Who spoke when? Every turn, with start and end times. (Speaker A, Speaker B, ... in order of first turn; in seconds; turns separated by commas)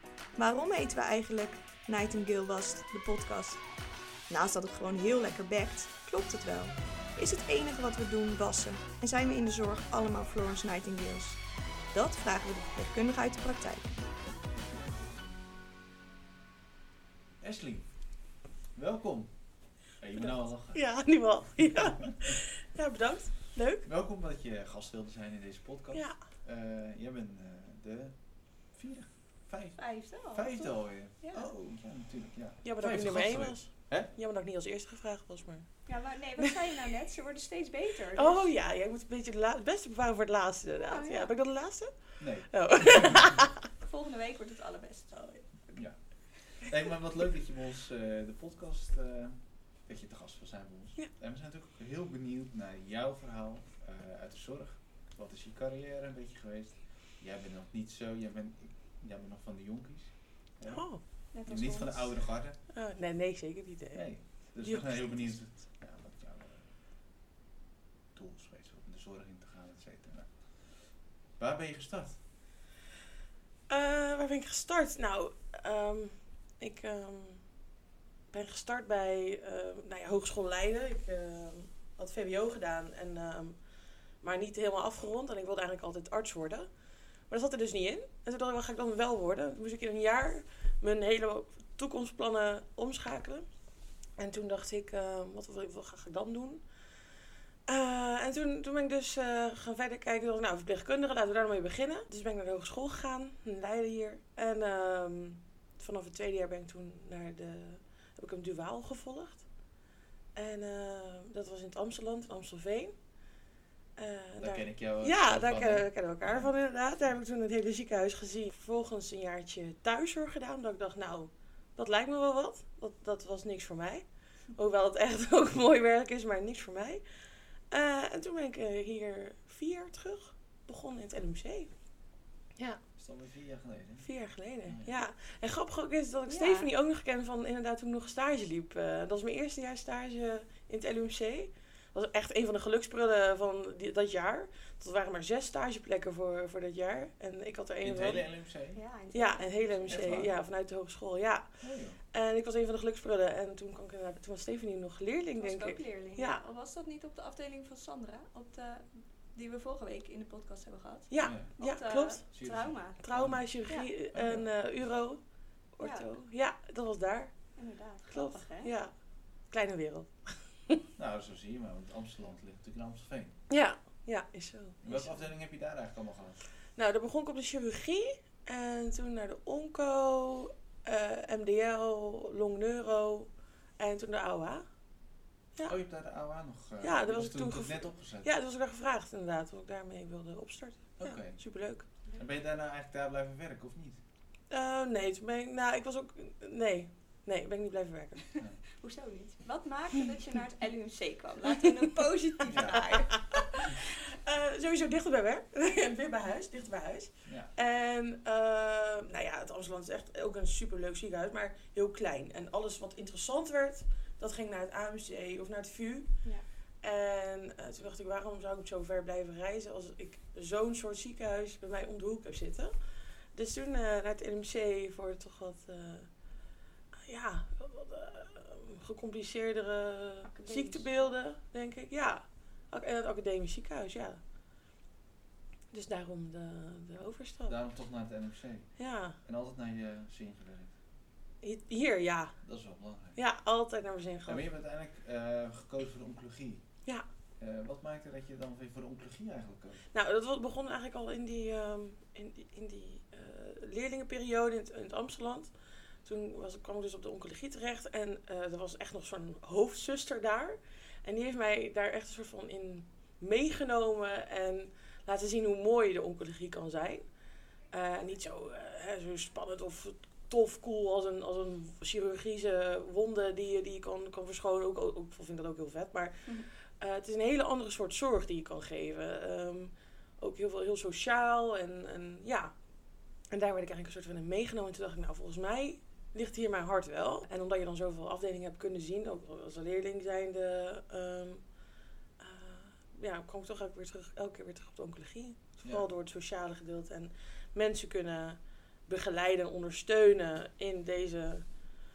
Speaker A: 0.3-3.6, Speaker A: 4.3-11.4, Speaker A: 11.9-13.9, Speaker B: 17.4-17.9, Speaker B: 18.7-19.3, Speaker B: 20.0-20.8, Speaker C: 20.7-23.9, Speaker B: 22.0-22.3, Speaker B: 23.8-28.1, Speaker C: 25.9-26.2, Speaker B: 28.7-34.1, Speaker A: 29.8-31.5, Speaker C: 32.6-35.8, Speaker A: 35.9-38.5, Speaker C: 38.1-43.6, Speaker A: 40.7-41.3, Speaker B: 42.2-43.3, Speaker A: 43.8-45.8, Speaker B: 45.7-60.9, Speaker C: 60.7-61.0, Speaker A: 61.3-62.2, Speaker B: 61.5-62.6, Speaker C: 62.7-65.2, Speaker B: 63.9-66.7, Speaker B: 68.1-72.2, Speaker C: 73.7-77.4, Speaker C: 78.3-83.6, Speaker C: 84.2-86.7, Speaker C: 87.3-93.5, Speaker C: 94.2-96.6, Speaker C: 97.7-109.5, Speaker C: 110.3-112.9, Speaker C: 114.0-127.0, Speaker B: 114.4-116.5, Speaker C: 127.7-131.7, Speaker B: 133.0-134.1, Speaker C: 134.0-148.2, Speaker B: 134.7-134.9, Speaker A: 136.3-136.7, Speaker B: 147.8-148.8, Speaker A: 148.7-150.3, Speaker C: 149.1-151.6, Speaker B: 149.9-150.3, Speaker B: 151.6-152.0, Speaker C: 152.1-156.4, Speaker A: 155.4-163.0, Speaker C: 161.1-162.2, Speaker B: 161.2-161.5, Speaker B: 162.3-163.4, Speaker C: 163.0-165.2, Speaker B: 164.1-164.5, Speaker C: 165.8-167.3, Speaker A: 165.8-166.1, Speaker A: 167.6-168.7, Speaker C: 168.1-168.9, Speaker C: 169.5-170.8, Speaker B: 171.0-173.3, Speaker C: 173.5-175.2, Speaker B: 174.8-176.4, Speaker C: 176.8-184.7, Speaker B: 185.6-188.3, Speaker C: 186.8-191.8, Speaker B: 191.0-191.4, Speaker B: 192.1-194.0, Speaker C: 194.5-198.2, Speaker A: 198.3-203.8, Speaker B: 202.5-202.9, Speaker C: 203.1-216.1, Speaker B: 207.2-207.5, Speaker C: 216.8-222.7, Speaker C: 223.3-226.1, Speaker C: 227.0-234.2, Speaker A: 230.3-231.1, Speaker C: 235.7-237.6, Speaker B: 237.4-238.7, Speaker C: 238.8-239.2, Speaker B: 239.2-240.7, Speaker C: 241.4-242.4, Speaker B: 242.4-243.2, Speaker C: 243.1-244.4, Speaker B: 244.2-246.6, Speaker B: 247.4-249.8, Speaker C: 249.9-255.5, Speaker C: 256.0-267.0, Speaker C: 267.7-282.5, Speaker C: 283.3-291.4, Speaker C: 292.2-301.4